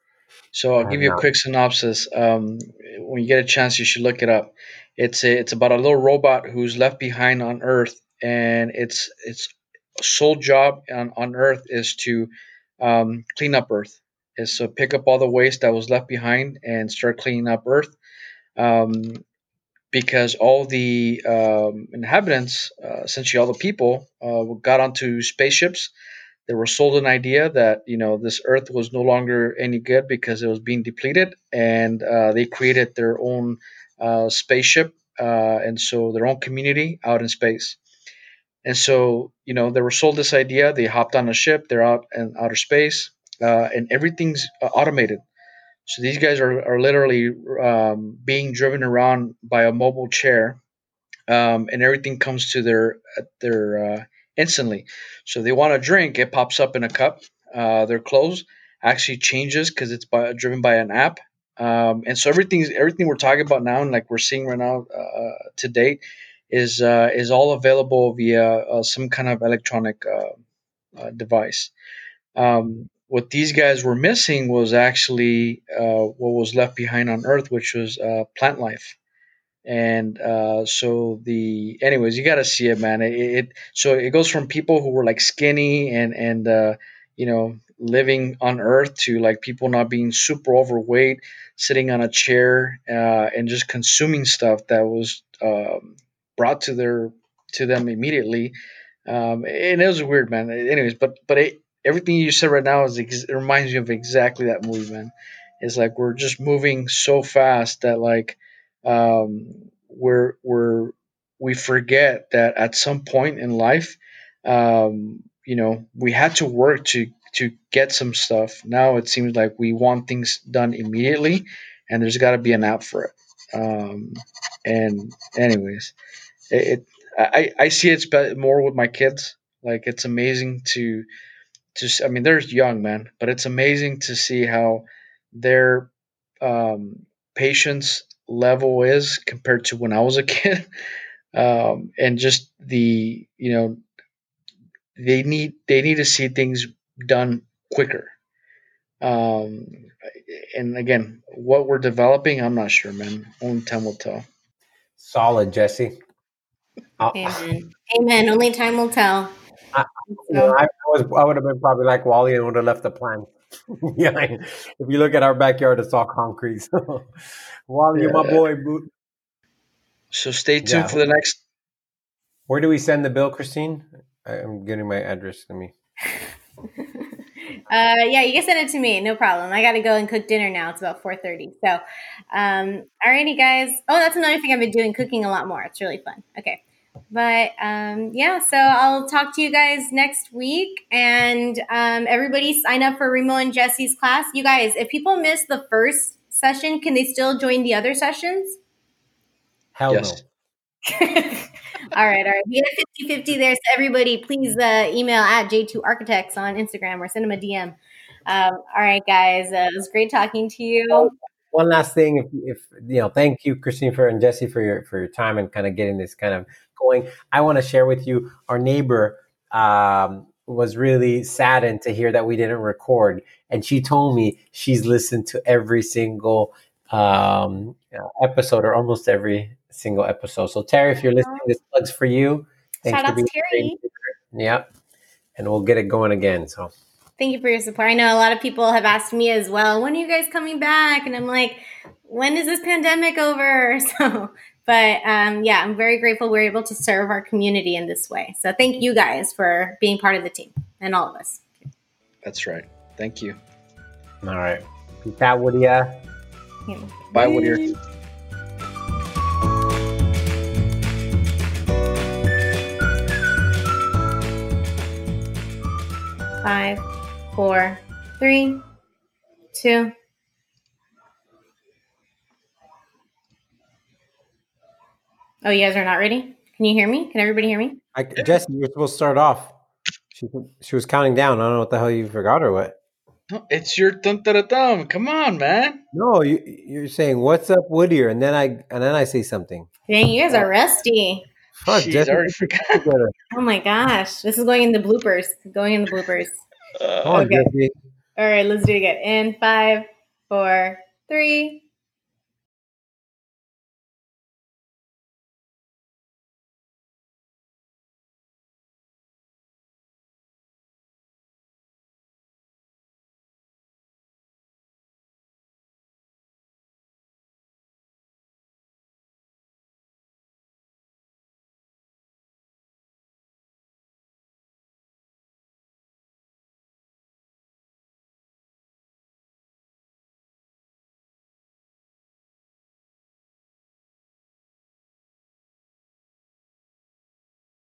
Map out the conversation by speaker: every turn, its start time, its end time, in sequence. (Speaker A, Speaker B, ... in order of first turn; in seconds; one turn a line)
Speaker A: 0.5-18.0
Speaker B: 0.8-1.2
Speaker A: 18.6-19.2
Speaker A: 19.9-25.9
Speaker A: 26.5-37.8
Speaker A: 38.6-45.2
Speaker A: 45.9-50.6
Speaker A: 51.3-70.4
Speaker A: 71.0-71.7
Speaker A: 72.4-79.0
Speaker A: 79.7-98.5
Speaker A: 99.1-125.9
Speaker A: 126.5-131.1
Speaker A: 131.8-135.9
Speaker A: 136.4-140.7
Speaker A: 141.3-143.8
Speaker A: 145.0-148.1
Speaker A: 149.0-154.2
Speaker B: 155.0-156.0
Speaker B: 157.0-157.4
Speaker C: 157.1-159.3
Speaker B: 159.7-168.9
Speaker C: 160.3-160.6
Speaker A: 168.0-168.4
Speaker A: 170.1-171.4
Speaker B: 170.6-171.0
Speaker B: 172.5-175.7
Speaker C: 177.7-186.6
Speaker C: 187.1-198.6
Speaker B: 199.8-200.2
Speaker A: 199.9-200.2
Speaker C: 200.9-211.1
Speaker B: 210.9-234.7
Speaker C: 231.2-231.5
Speaker C: 232.9-233.8
Speaker B: 235.4-236.7
Speaker C: 237.2-251.4
Speaker A: 252.2-253.4
Speaker B: 254.2-256.0
Speaker C: 256.7-257.7
Speaker A: 257.1-257.6
Speaker C: 266.4-266.8
Speaker C: 267.4-268.6
Speaker C: 269.5-269.9
Speaker C: 275.4-277.8
Speaker B: 277.9-279.6
Speaker B: 280.1-282.8
Speaker A: 283.3-285.8
Speaker B: 285.9-289.7
Speaker C: 289.9-291.3
Speaker B: 291.6-293.1
Speaker A: 291.7-292.9
Speaker C: 293.3-296.4
Speaker A: 296.8-297.1
Speaker B: 297.0-297.7
Speaker C: 297.1-297.5
Speaker C: 298.2-301.6